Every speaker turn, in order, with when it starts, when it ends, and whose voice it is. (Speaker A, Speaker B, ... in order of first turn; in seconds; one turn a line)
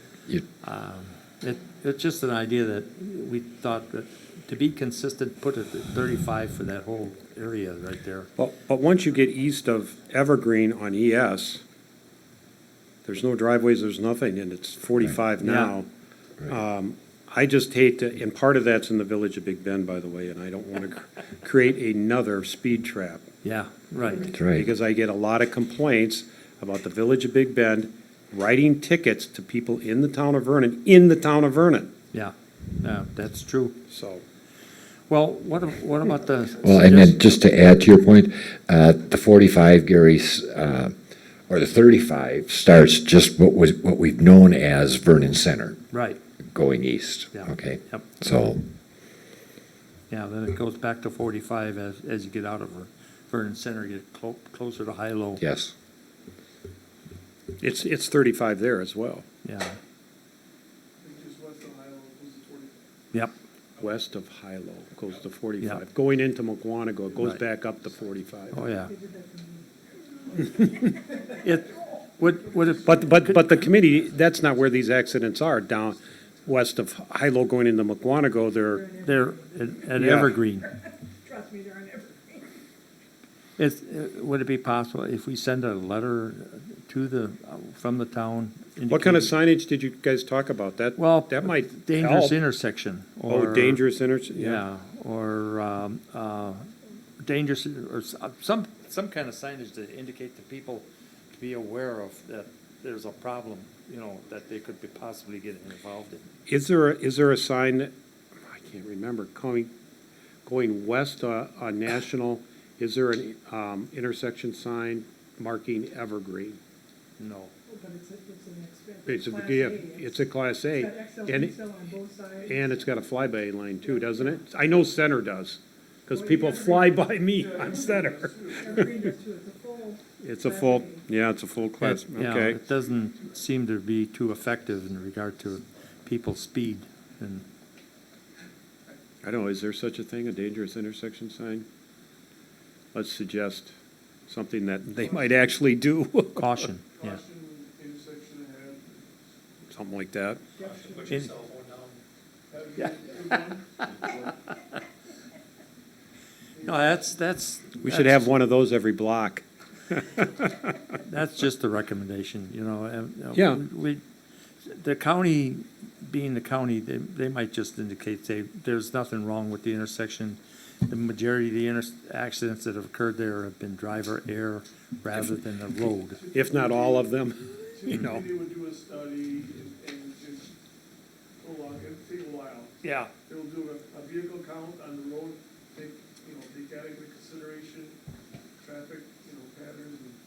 Speaker A: 0.6-8.3
Speaker B: 8.4-11.6
Speaker B: 13.1-15.9
Speaker A: 15.4-15.8
Speaker B: 16.5-23.3
Speaker A: 23.4-24.4
Speaker C: 24.3-24.7
Speaker B: 24.5-31.9
Speaker A: 32.1-33.8
Speaker B: 33.9-34.2
Speaker A: 35.1-37.4
Speaker C: 36.6-40.9
Speaker C: 41.5-45.8
Speaker A: 45.9-46.2
Speaker C: 46.5-48.7
Speaker A: 47.3-48.0
Speaker A: 50.1-55.4
Speaker C: 55.4-55.7
Speaker B: 57.6-59.2
Speaker A: 59.4-59.8
Speaker D: 61.0-62.9
Speaker B: 63.8-68.6
Speaker A: 68.5-68.9
Speaker E: 68.8-69.8
Speaker A: 71.3-73.7
Speaker B: 72.9-78.9
Speaker E: 78.7-79.7
Speaker A: 79.0-80.7
Speaker B: 80.0-80.3
Speaker E: 80.7-82.5
Speaker A: 83.6-89.3
Speaker B: 88.9-92.4
Speaker A: 91.0-93.8
Speaker B: 93.3-94.6
Speaker A: 94.3-100.9
Speaker A: 101.4-106.3
Speaker B: 106.5-107.9
Speaker B: 108.5-109.7
Speaker B: 110.5-116.6
Speaker A: 117.2-117.5
Speaker E: 117.7-122.8
Speaker B: 119.1-121.6
Speaker B: 122.4-128.9
Speaker E: 126.1-127.0
Speaker D: 127.3-128.8
Speaker E: 128.5-131.1
Speaker B: 130.2-132.6
Speaker A: 131.8-137.5
Speaker B: 139.2-141.7
Speaker B: 142.9-143.7
Speaker B: 144.3-146.7
Speaker D: 145.0-145.4
Speaker A: 146.4-147.2
Speaker D: 147.0-149.2
Speaker B: 149.7-150.4
Speaker E: 150.6-151.1
Speaker A: 151.0-151.4
Speaker D: 152.5-154.3
Speaker A: 153.5-153.9
Speaker D: 156.6-157.0
Speaker A: 156.6-158.3
Speaker B: 157.8-160.3
Speaker A: 161.0-164.0
Speaker B: 163.3-163.6
Speaker A: 164.7-176.2
Speaker D: 176.2-180.5
Speaker B: 176.3-177.7
Speaker A: 177.9-178.3
Speaker D: 181.4-187.9
Speaker A: 182.8-183.1
Speaker D: 188.6-190.2